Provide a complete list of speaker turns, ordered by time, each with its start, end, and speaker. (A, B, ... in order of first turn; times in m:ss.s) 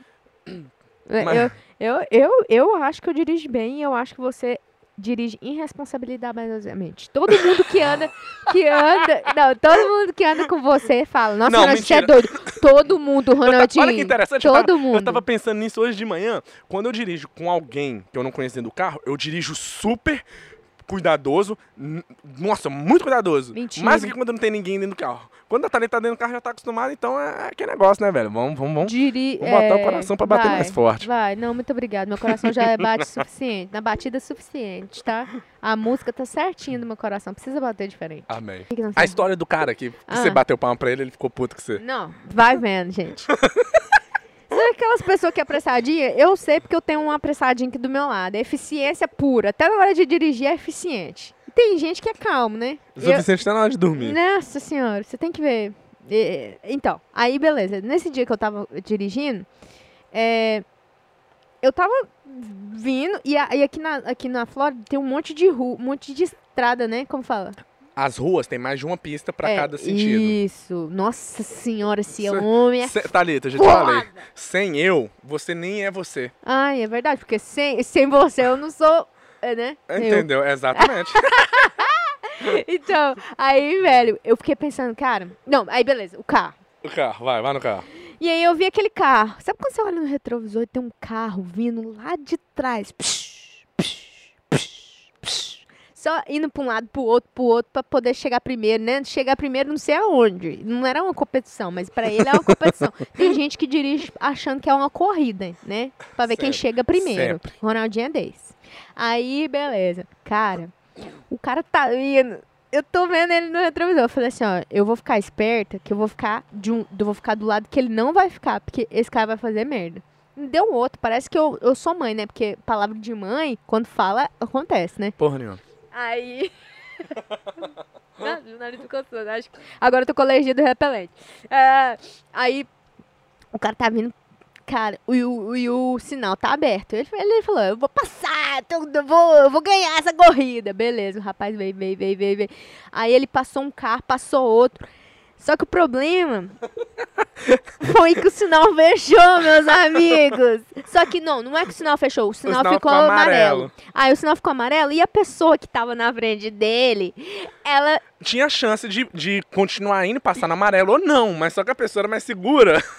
0:00.5-0:01.5 A
0:01.1-0:15.2 B
0:11.4-0:12.6 A
0:13.4-0:20.2 A
0:20.9-0:31.1 A
0:23.5-0:24.1 B
0:28.8-0:39.2 B
0:32.4-0:33.2 A
0:38.3-0:41.8 A
0:40.1-0:40.4 B
0:41.8-0:43.3 B
0:43.4-0:43.7 A
0:44.5-0:53.3 B
0:53.0-0:54.2 A
0:53.9-0:59.5 B
1:00.1-1:00.6 B
1:01.6-1:07.6 B
1:08.0-1:10.4 A
1:09.4-1:14.2 B
1:12.2-1:16.3 A
1:16.4-1:26.6 B
1:19.9-1:21.7 A
1:26.8-1:27.9 A
1:28.2-1:50.8 B
1:46.2-1:47.5 A
1:51.3-2:05.2 B
2:05.2-2:05.6 A
2:05.9-2:07.6 B
2:08.2-2:12.7 B
2:13.5-2:14.2 B
2:14.7-2:24.8 B
2:25.4-2:26.6 B
2:27.8-2:38.0 B
2:32.5-2:33.7 A
2:38.2-2:42.8 A